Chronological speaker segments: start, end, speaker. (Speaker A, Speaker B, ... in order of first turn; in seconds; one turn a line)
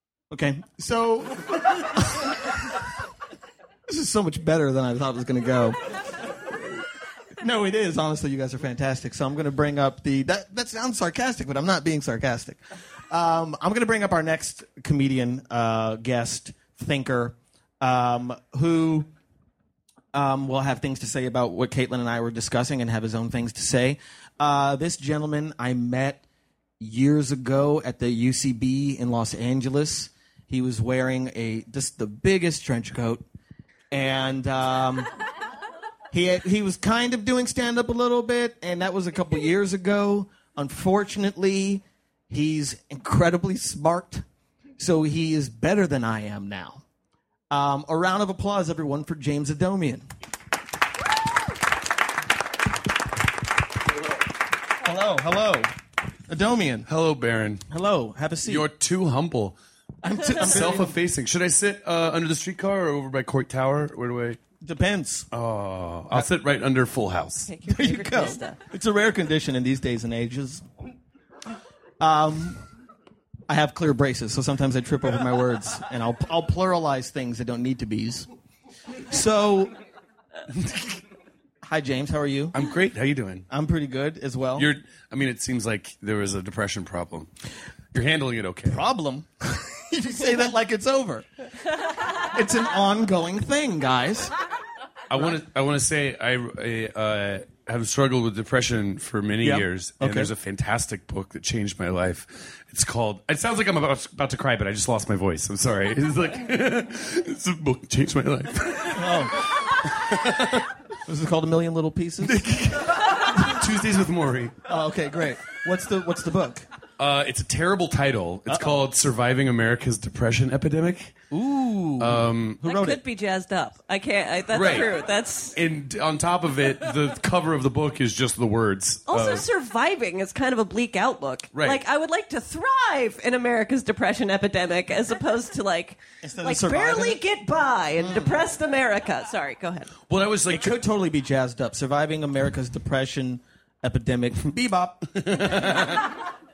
Speaker A: 0.3-2.9
Speaker A: 3.9-5.8
Speaker A: 7.4-19.1
Speaker A: 20.1-26.2
Speaker A: 26.8-33.2
Speaker A: 33.9-35.1
Speaker A: 36.1-44.2
Speaker A: 44.8-46.8
Speaker A: 47.5-50.1
Speaker A: 54.8-55.7
Speaker A: 56.3-56.9
Speaker B: 56.9-57.6
Speaker A: 57.7-58.7
Speaker B: 58.5-59.6
Speaker A: 60.0-60.9
Speaker B: 60.3-64.4
Speaker A: 64.6-65.3
Speaker B: 65.3-67.5
Speaker C: 67.5-68.6
Speaker A: 67.7-70.7
Speaker A: 72.0-72.6
Speaker A: 73.5-78.3
Speaker A: 79.1-79.7
Speaker B: 80.5-81.0
Speaker A: 81.6-82.6
Speaker B: 82.5-83.5
Speaker A: 83.5-84.7
Speaker B: 84.6-87.3
Speaker B: 87.9-88.8
Speaker A: 88.7-91.3
Speaker A: 92.2-94.3
Speaker B: 95.1-110.7
Speaker A: 99.4-100.3
Speaker A: 108.9-109.7
Speaker A: 111.1-112.4
Speaker B: 112.2-114.6
Speaker A: 114.7-116.7
Speaker B: 117.0-121.2
Speaker A: 118.5-118.8
Speaker A: 121.3-123.0
Speaker B: 122.0-122.6
Speaker C: 122.6-125.6
Speaker B: 124.5-124.9
Speaker B: 125.5-129.4
Speaker C: 129.1-139.9
Speaker B: 131.5-131.8
Speaker A: 136.2-137.2
Speaker A: 138.0-138.3
Speaker B: 140.1-140.8
Speaker A: 140.5-145.6
Speaker B: 145.2-146.2